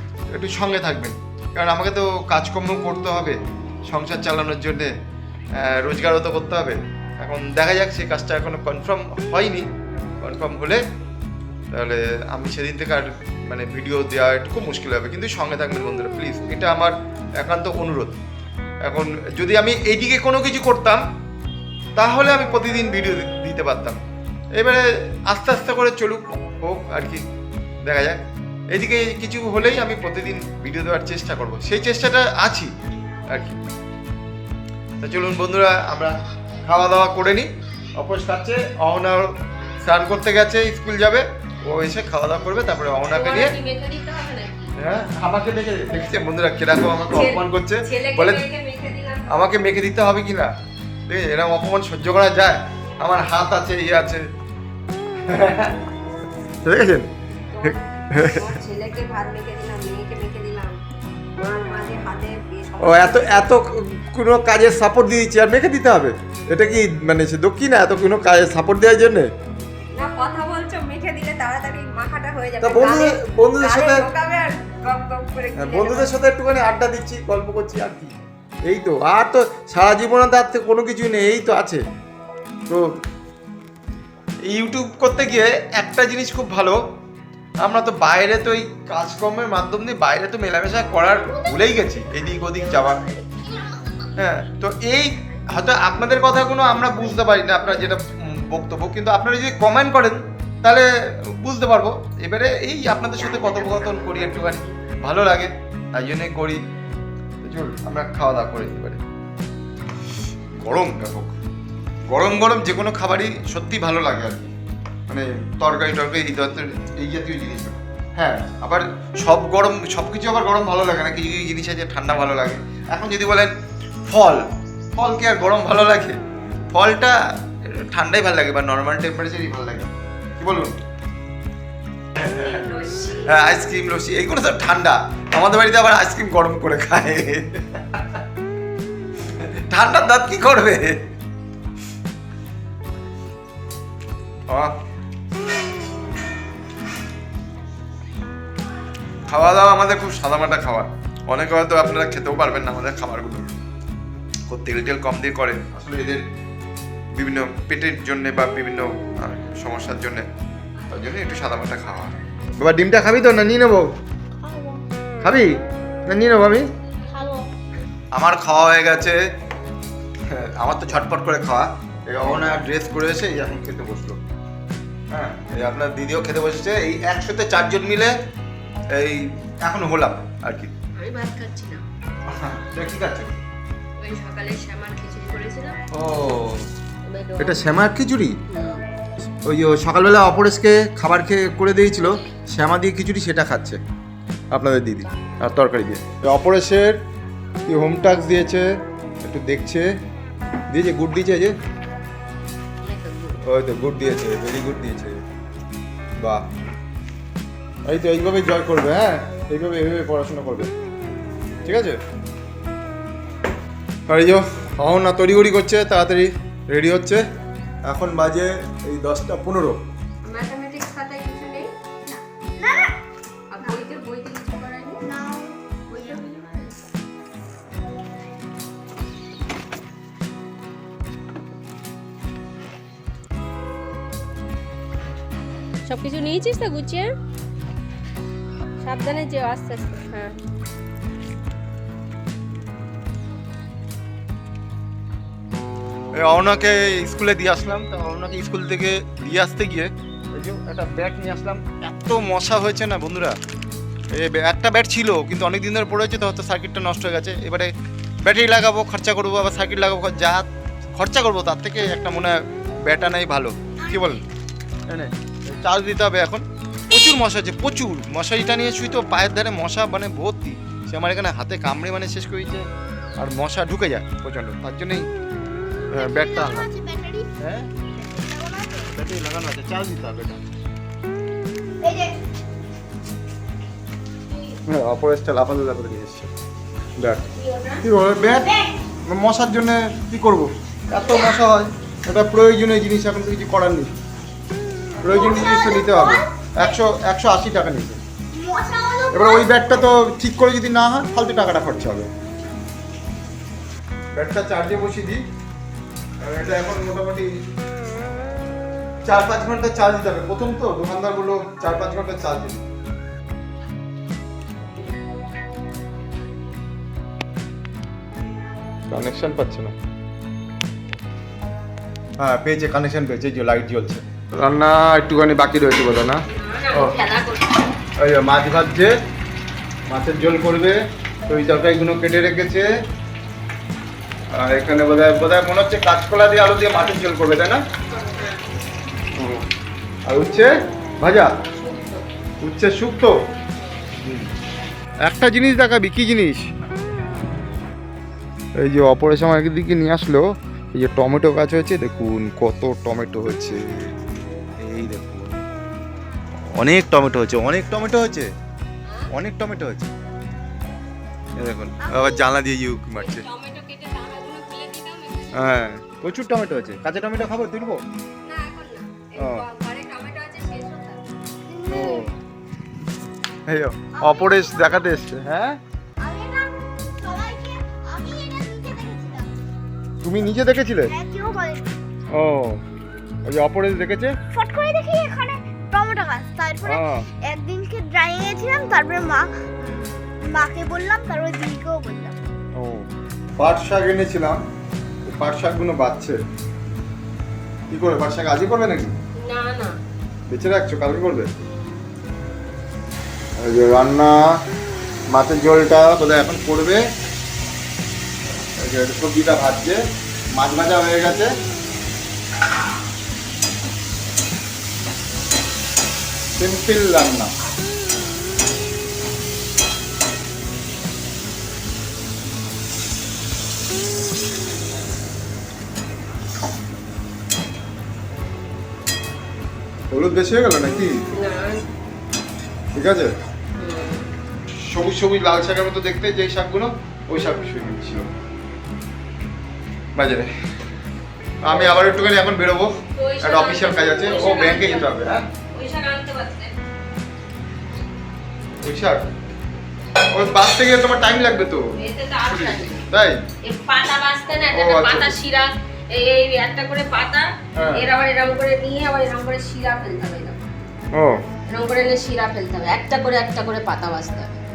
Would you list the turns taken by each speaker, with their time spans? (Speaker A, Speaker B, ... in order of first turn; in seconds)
Speaker A: 0.3-4.9, 5.5-9.7, 10.2-10.8, 11.7-18.1, 18.8-21.0, 21.9-24.0, 24.6-27.2, 27.8-28.2, 28.7-32.7, 33.3-33.6, 35.0-39.3, 39.8-43.5, 44.8-48.4, 49.3-50.5, 51.1-54.2, 55.2-55.8, 56.6-57.1, 57.6-58.5, 62.8-69.3, 72.6-74.0, 75.5-78.2, 78.7-81.8, 84.5-86.8, 87.6-93.0, 94.2-106.6, 107.4-109.0, 110.6-111.4, 112.1-114.5, 115.1-123.5, 124.1-124.4, 125.0-126.2, 126.7-130.8, 132.2-132.6, 133.2-138.2, 139.3-141.1, 144.5-144.7, 149.3-153.5, 154.5-156.2, 157.2-160.2, 160.9-163.9, 165.2-165.6, 166.1-166.7, 168.1-169.2, 170.2-174.2, 175.1-178.2, 178.9-180.7, 182.3-183.4, 185.9-186.7, 187.4-188.4, 189.4-193.8, 194.5-197.0, 197.6-198.7, 199.2-199.9, 200.7-201.5, 203.4-205.2, 206.2-206.4, 207.9-210.7, 211.6-212.0, 214.1-217.2, 217.8-219.8, 246.2-253.4, 254.1-257.7, 258.2-260.5, 261.0-264.2, 264.9-275.1, 275.9-276.7, 277.4-277.7, 278.9-280.4, 284.7-286.3, 287.0-287.2, 287.8-288.5, 289.0-293.9, 295.0-298.0, 299.1-302.1, 304.1-305.2, 306.2-307.3, 309.1-312.6, 318.9-319.7, 322.2-327.0, 328.0-328.9, 329.9-332.7, 334.3-337.6, 339.1-339.4, 340.1-341.3, 342.4-343.1, 344.0-344.3, 345.0-346.5, 348.6-353.9, 354.6-355.4, 356.6-358.3, 359.1-359.9, 361.4-363.2, 365.3-367.8, 369.1-369.4, 371.7-372.1, 373.5-375.6, 380.0-380.9, 382.1-382.6, 383.2-384.2, 386.6-387.1, 392.6-394.4, 395.1-396.2, 397.7-398.9, 400.3-401.3, 403.4-404.2, 405.1-406.8, 408.6-409.8, 410.4-411.3, 416.4-417.3, 429.9-431.0, 432.7-433.1, 434.6-438.1, 439.9-440.3, 441.4-445.2, 448.6-449.1, 450.0-451.7, 452.2-453.2, 454.5-455.2, 457.6-457.9, 460.9-461.2
Speaker B: 43.1-44.7, 47.1-49.5, 57.5-60.8, 61.4-63.5, 70.0-76.1, 103.4-104.7, 132.2-133.4, 160.8-162.1, 180.9-181.8, 184.0-185.8, 187.1-187.7, 188.5-188.8, 202.8-203.4, 220.2-221.7, 223.5-225.0, 225.9-226.7, 235.8-237.1, 238.8-240.3, 284.3-284.6, 287.3-287.8, 295.1-295.5, 326.3-327.7, 337.9-338.4, 341.5-342.0, 358.9-359.1, 363.0-365.5, 368.2-371.0, 399.2-399.7, 431.1-431.6, 433.6-434.1, 441.4-441.9, 442.9-444.9, 445.5-446.5, 451.8-452.8, 453.4-460.4, 461.5-464.4
Speaker C: 91.3-94.2, 164.4-164.8, 167.1-167.5, 222.1-223.0, 225.0-226.3, 263.8-264.2, 275.9-277.3, 277.8-278.9, 281.8-282.1, 288.2-288.8, 295.0-296.7, 298.3-299.7, 361.8-362.2, 371.5-372.1, 373.9-375.0, 376.0-379.3, 380.9-381.7, 384.3-389.5, 390.2-392.2